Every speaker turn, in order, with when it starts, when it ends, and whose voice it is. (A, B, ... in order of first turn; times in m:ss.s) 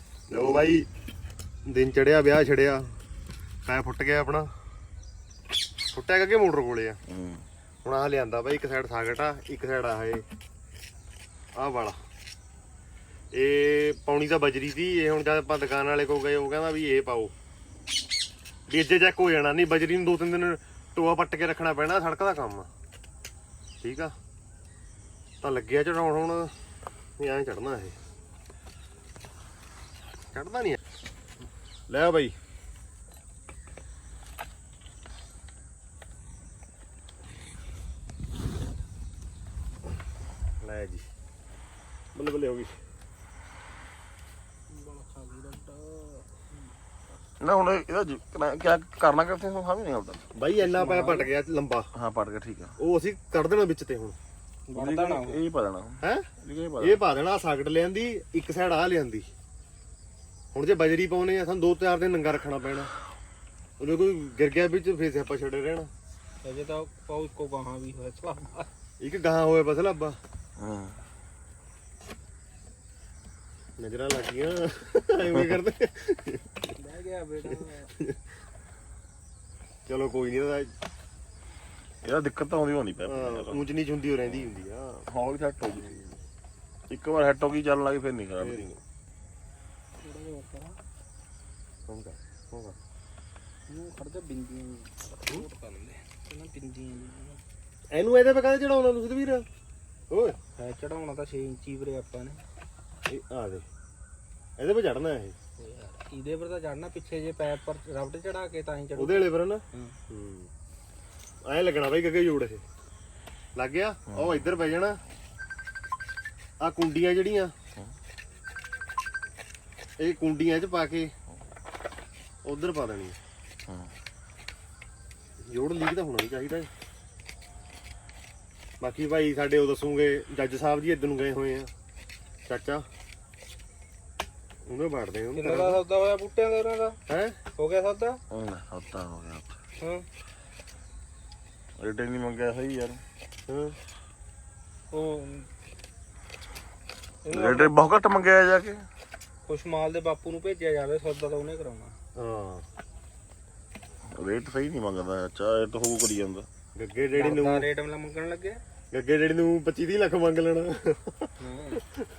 0:00.3-0:00.9 A
0:01.7-0:02.9 A
0:03.7-0:04.5 A
0:05.9-0:07.0 A
0:07.1-0:07.4 B
0:07.8-0:10.2 A
0:11.6-0:12.0 A
0:13.3-0:17.3 A
0:18.7-0:22.7 A
0:23.8-0:24.1 A
0:25.4-0:26.5 A
0:27.2-0:28.0 A
0:30.3-0:30.8 A
0:31.9-0:32.3 A
0:40.6-0:41.1 A
0:42.2-0:42.8 A
0:44.7-0:46.6 C
0:47.4-0:50.2 B
0:50.4-0:51.8 A
0:50.6-0:51.3 C
0:51.9-0:52.7 B
0:52.8-0:54.2 A
0:54.7-0:55.4 C
0:54.8-0:57.0 B
0:56.8-0:59.3 A
1:00.5-1:02.9 A
1:03.8-1:05.9 A
1:06.4-1:08.7 C
1:09.0-1:10.2 A
1:10.6-1:11.0 B
1:13.8-1:16.5 A
1:16.8-1:17.9 C
1:19.9-1:20.7 A
1:22.0-1:23.7 B
1:23.1-1:25.0 A
1:24.2-1:24.5 B
1:25.1-1:25.9 B
1:25.8-1:26.1 A
1:26.9-1:28.6 B
1:28.4-1:28.8 A
1:30.0-1:30.8 C
1:31.9-1:32.8 A
1:33.7-1:37.4 C
1:37.9-1:39.5 A
1:40.1-1:40.4 A
1:40.6-1:42.4 C
1:43.1-1:43.6 A
1:44.6-1:45.4 A
1:45.6-1:50.0 C
1:49.0-1:50.5 A
1:51.4-1:52.6 A
1:53.6-1:55.0 A
1:54.1-1:54.6 B
1:56.6-1:57.5 A
2:00.0-2:01.1 A
2:02.4-2:03.2 A
2:05.4-2:06.7 A
2:08.8-2:11.7 A
2:12.5-2:12.8 A
2:14.7-2:15.8 A
2:15.4-2:17.0 C
2:17.1-2:17.4 A
2:17.6-2:18.2 C
2:18.3-2:19.6 B
2:19.8-2:20.0 C
2:21.8-2:23.0 B
2:23.5-2:23.8 A
2:24.9-2:25.5 C
2:27.2-2:27.7 C
2:27.3-2:28.8 B
2:29.5-2:32.0 C
2:32.2-2:32.6 A
2:34.1-2:36.5 B
2:36.8-2:37.7 A
2:37.2-2:38.6 C
2:38.9-2:41.3 A
2:41.4-2:41.8 C